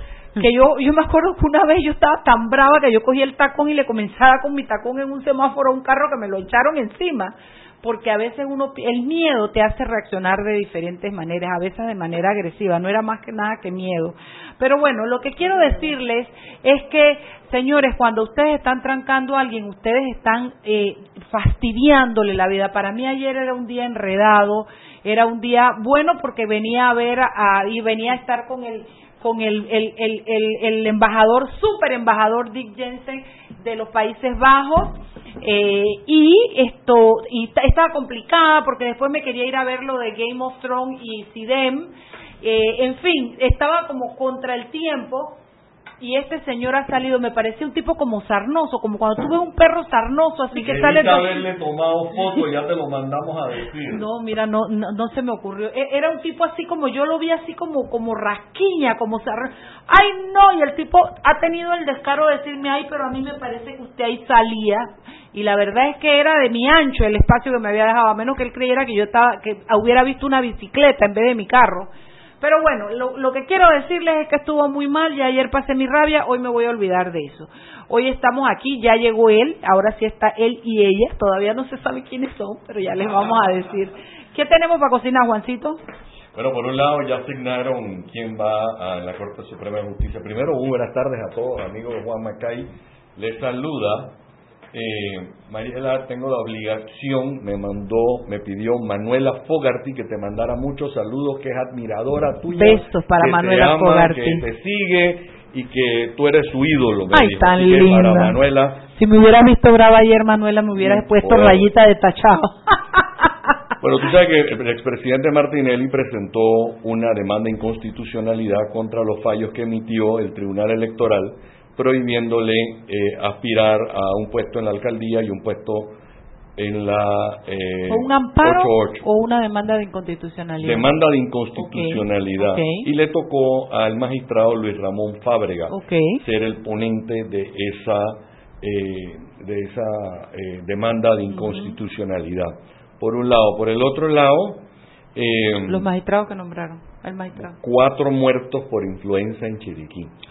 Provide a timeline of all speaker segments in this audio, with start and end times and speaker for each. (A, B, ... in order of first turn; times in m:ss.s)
0:00.4-0:45.4 A
0:46.0-0:51.5 A
0:50.5-0:54.1 B
0:53.9-1:11.9 A
1:12.4-1:25.8 A
1:26.4-1:34.2 B
1:34.7-1:48.9 B
1:42.5-1:44.4 A
1:47.1-1:48.4 A
1:48.9-1:53.3 A
1:50.8-1:51.7 B
1:53.8-2:06.0 B
2:06.6-2:09.1 B
2:07.9-2:10.9 A
2:10.6-2:24.6 B
2:11.6-2:12.9 A
2:15.7-2:16.2 A
2:21.3-2:21.8 A
2:25.2-2:25.9 B
2:25.7-2:27.6 A
2:27.4-2:30.1 B